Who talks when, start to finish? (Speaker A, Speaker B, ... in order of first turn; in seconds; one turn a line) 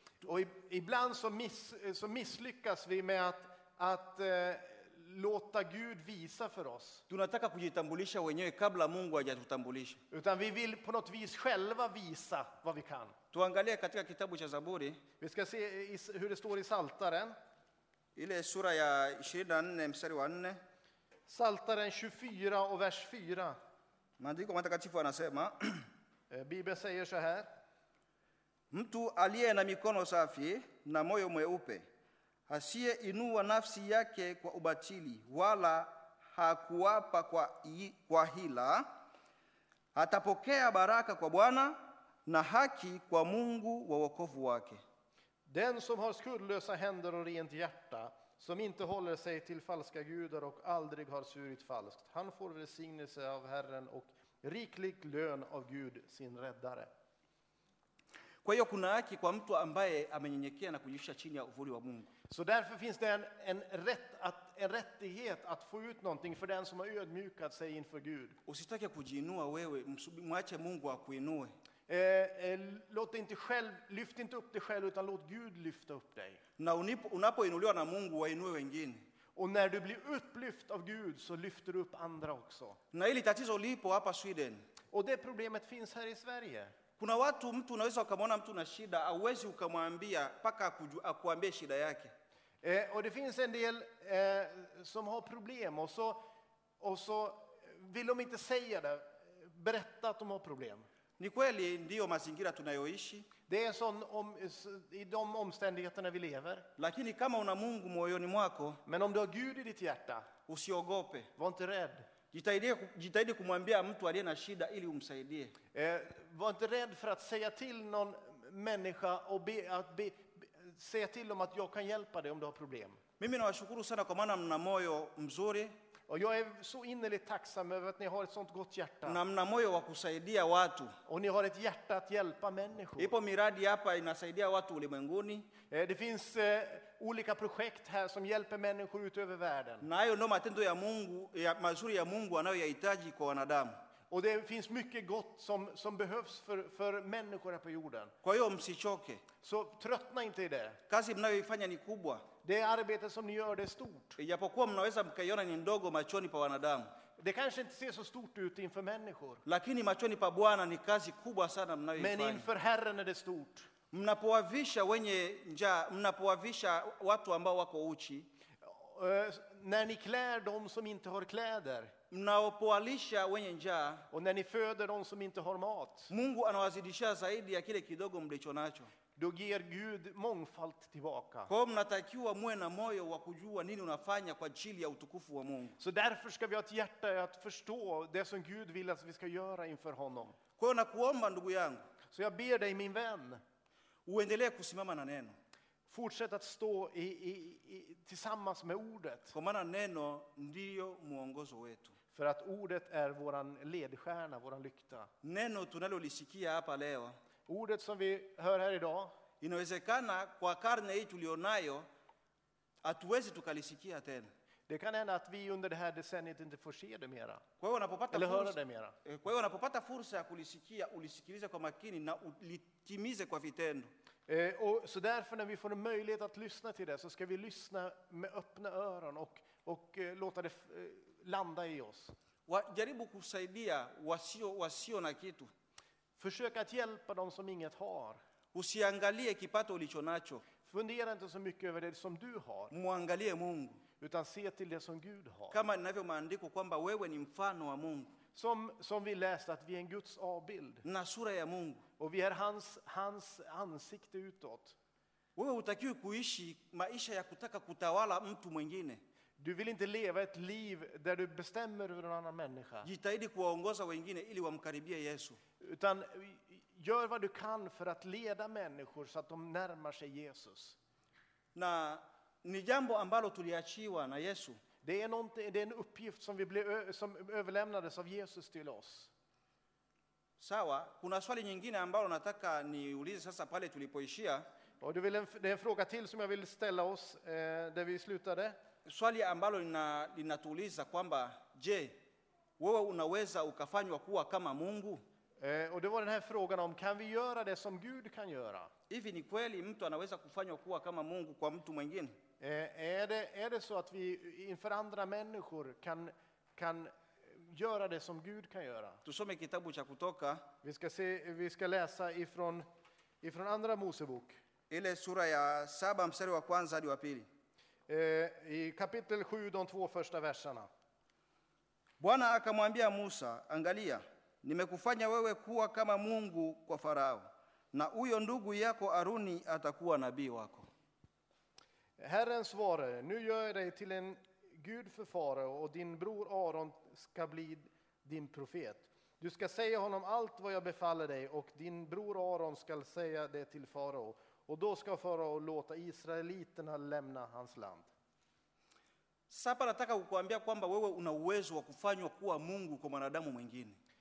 Speaker A: 0.2-7.0
Speaker B: 7.1-10.0
Speaker A: 10.1-13.1
Speaker B: 13.3-15.0
Speaker A: 15.2-17.4
Speaker B: 18.1-20.6
Speaker A: 21.3-23.6
Speaker B: 24.2-25.8
Speaker A: 26.3-27.5
Speaker B: 28.7-31.9
Speaker B: 32.5-38.9
Speaker B: 39.9-44.8
Speaker A: 45.5-56.9
Speaker B: 58.4-62.1
Speaker A: 62.3-68.4
Speaker B: 68.5-71.5
Speaker A: 71.9-76.4
Speaker B: 76.6-79.0
Speaker A: 79.3-82.8
Speaker B: 82.9-84.6
Speaker A: 84.9-86.7
Speaker B: 87.0-92.1
Speaker A: 92.6-96.2
Speaker A: 96.8-100.9
Speaker B: 101.2-103.3
Speaker A: 103.5-106.7
Speaker B: 106.8-108.8
Speaker A: 108.8-110.3
Speaker B: 110.5-111.3
Speaker A: 111.3-112.1
Speaker B: 112.3-115.5
Speaker A: 115.7-123.0
Speaker B: 123.2-125.7
Speaker A: 126.1-129.2
Speaker B: 129.1-130.9
Speaker A: 131.1-133.1
Speaker B: 133.0-135.5
Speaker A: 135.7-139.9
Speaker B: 139.8-143.7
Speaker A: 144.1-148.1
Speaker B: 148.2-149.2
Speaker A: 149.4-150.8
Speaker B: 150.9-152.3
Speaker A: 152.4-154.2
Speaker B: 154.2-156.9
Speaker A: 157.2-159.4
Speaker B: 159.4-162.4
Speaker A: 161.9-163.7
Speaker B: 163.9-168.3
Speaker A: 168.6-171.9
Speaker B: 172.1-174.0
Speaker A: 174.1-176.1
Speaker B: 176.1-178.9
Speaker A: 179.2-181.5
Speaker B: 181.5-185.8
Speaker A: 185.8-190.4
Speaker B: 190.6-191.8
Speaker A: 192.1-193.4
Speaker B: 194.1-195.3
Speaker A: 195.9-199.3
Speaker B: 199.3-202.0
Speaker A: 202.1-205.1
Speaker B: 205.2-207.1
Speaker A: 207.5-209.1
Speaker B: 209.4-211.8
Speaker B: 212.8-214.3
Speaker A: 214.7-217.4
Speaker B: 217.6-223.9
Speaker A: 218.1-218.9
Speaker A: 224.3-232.1
Speaker B: 232.5-235.5
Speaker A: 236.2-238.2
Speaker B: 238.5-240.4
Speaker A: 240.6-242.7
Speaker B: 242.7-243.8
Speaker A: 244.0-245.6
Speaker B: 245.5-248.1
Speaker A: 248.3-250.8
Speaker B: 250.8-251.8
Speaker A: 252.0-254.8
Speaker B: 255.3-259.0
Speaker A: 259.4-262.9
Speaker B: 262.8-265.4
Speaker A: 265.6-270.8
Speaker B: 271.5-274.6
Speaker A: 274.8-279.1
Speaker B: 280.4-284.4
Speaker A: 284.8-288.6
Speaker B: 288.8-292.0
Speaker B: 292.6-295.0
Speaker A: 295.4-298.7
Speaker B: 298.9-302.2
Speaker A: 302.4-309.0
Speaker B: 309.0-310.4
Speaker A: 310.6-312.6
Speaker A: 313.2-314.4
Speaker B: 314.7-317.3
Speaker A: 317.9-320.7
Speaker B: 322.0-330.7
Speaker A: 332.0-347.9
Speaker B: 349.3-353.8